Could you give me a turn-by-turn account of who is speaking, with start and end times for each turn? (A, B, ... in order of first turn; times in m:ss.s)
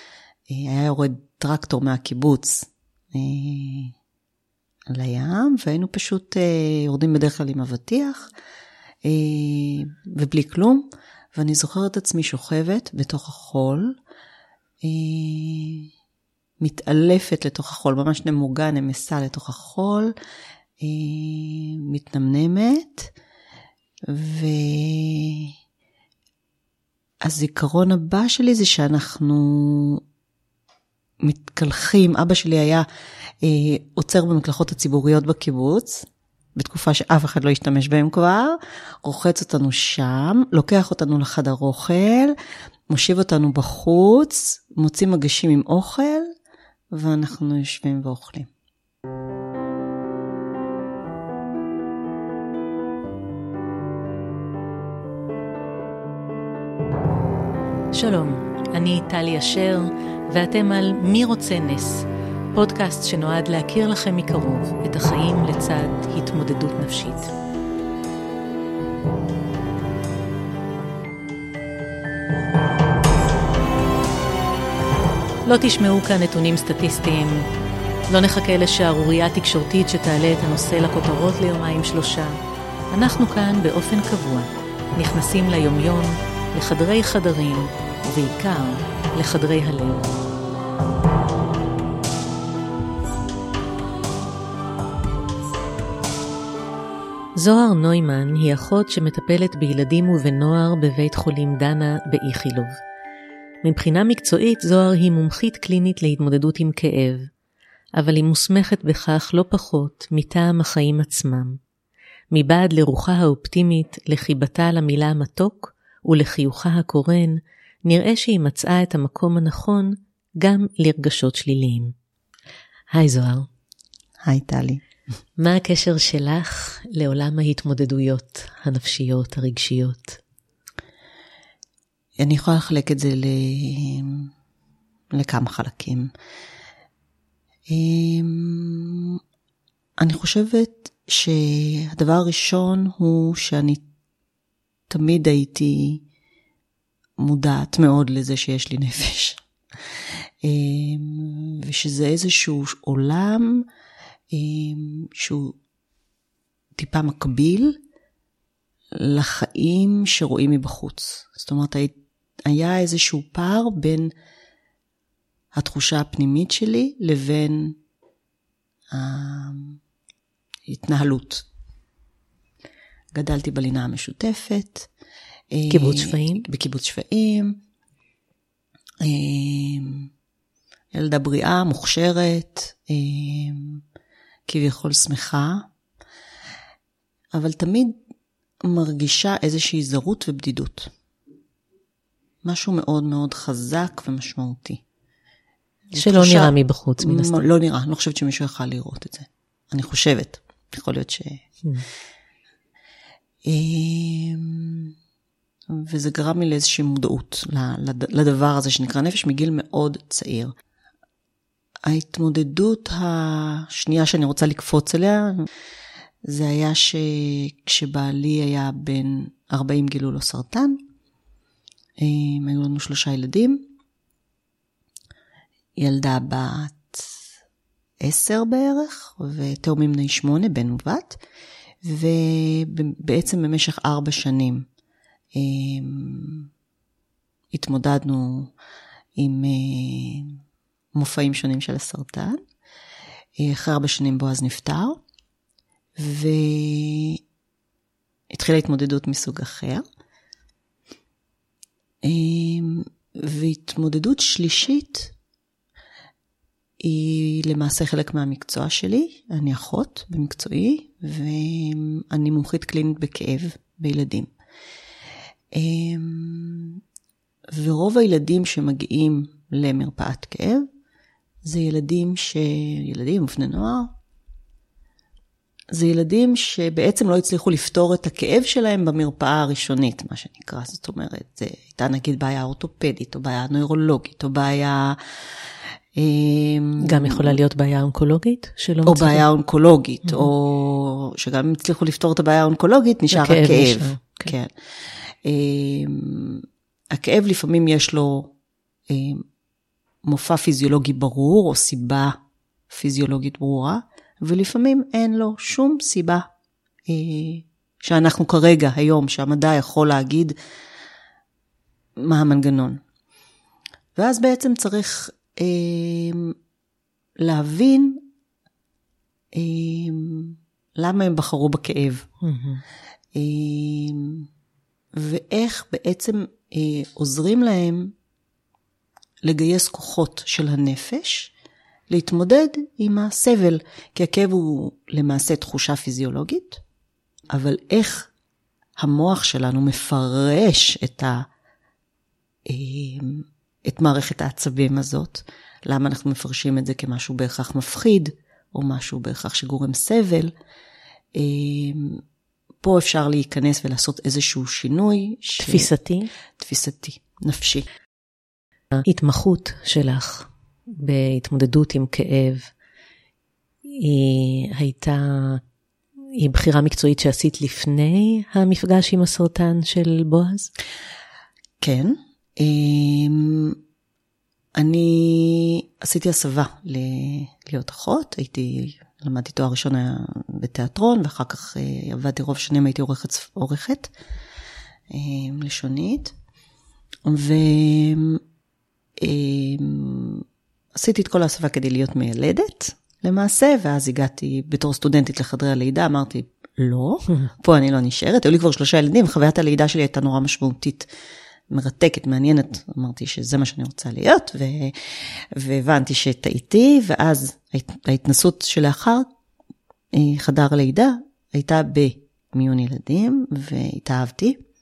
0:00.5-0:03.9 A
0:04.9-0:08.3 A
0:09.0-0:14.0 A
0:14.8-0:15.9 A
0:16.6-0:20.1 A
0:20.8-0:23.1 A
0:24.1-0:25.5 A
0:27.2-0:30.0 A
0:31.2-0:32.8 A
0:33.4-0:42.4 A
0:42.9-0:46.3 A
0:46.9-0:48.5 A
0:57.9-1:07.3 B
1:15.4-1:17.5 B
1:18.1-1:22.4 B
1:22.9-1:30.2 B
1:37.3-1:42.8 B
1:43.6-1:47.3 B
1:48.0-1:51.6 B
1:52.3-2:01.9 B
2:02.9-2:03.5 B
2:04.2-2:04.8 A
2:05.4-2:10.2 B
2:12.2-2:14.3 A
2:15.1-2:16.1 A
2:17.7-2:19.2 A
2:20.0-2:23.8 A
2:24.9-2:26.0 A
2:27.2-2:29.4 A
2:30.4-2:33.6 A
2:34.3-2:35.6 A
2:36.8-2:37.8 A
2:39.0-2:41.9 A
2:42.5-2:44.1 A
2:45.5-2:47.8 A
2:48.9-2:49.8 A
2:50.7-2:51.4 A
2:53.1-2:54.9 A
2:55.5-2:57.6 A
2:55.7-2:56.4 B
2:59.0-3:00.1 A
3:00.9-3:03.8 A
3:04.5-3:05.7 A
3:07.3-3:07.9 A
3:08.6-3:10.9 A
3:12.4-3:14.8 A
3:15.9-3:21.4 A
3:16.0-3:17.5 B
3:23.5-3:24.9 A
3:25.7-3:30.5 A
3:31.9-3:35.5 A
3:36.2-3:40.8 A
3:42.0-3:43.7 A
3:45.8-3:47.0 A
3:48.0-3:51.2 A
3:51.8-3:54.7 A
3:55.4-3:56.5 A
3:57.5-3:58.5 A
3:59.2-4:00.4 A
4:00.9-4:02.4 A
4:03.4-4:05.0 A
4:06.0-4:07.2 A
4:08.3-4:09.8 A
4:12.0-4:15.1 A
4:16.8-4:24.3 A
4:25.6-4:26.8 A
4:27.5-4:30.6 A
4:31.4-4:33.9 A
4:35.7-4:45.0 A
4:46.0-4:47.4 A
4:46.8-4:49.2 B
4:48.8-4:54.5 A
4:53.1-4:54.3 B
4:55.2-4:58.3 A
4:58.9-4:59.2 A
5:00.0-5:02.2 A
5:02.7-5:06.3 A
5:06.9-5:10.4 A
5:12.0-5:12.8 A
5:14.0-5:16.3 A
5:17.2-5:18.0 A
5:19.3-5:22.1 A
5:22.2-5:22.6 B
5:23.2-5:24.3 A
5:25.0-5:27.9 A
5:29.2-5:31.3 A
5:31.9-5:36.6 A
5:37.3-5:38.1 A
5:38.8-5:41.3 A
5:42.5-5:50.3 A
5:51.2-5:52.0 A
5:52.6-5:55.7 A
5:55.4-5:56.1 B
5:56.4-5:57.6 A
5:58.8-6:02.5 B
6:03.6-6:05.4 B
6:06.2-6:10.5 B
6:11.6-6:13.6 A
6:14.6-6:23.9 A
6:24.9-6:26.1 A
6:27.0-6:28.2 A
6:29.0-6:30.2 A
6:30.7-6:40.9 A
6:41.5-6:49.1 A
6:49.9-6:54.4 A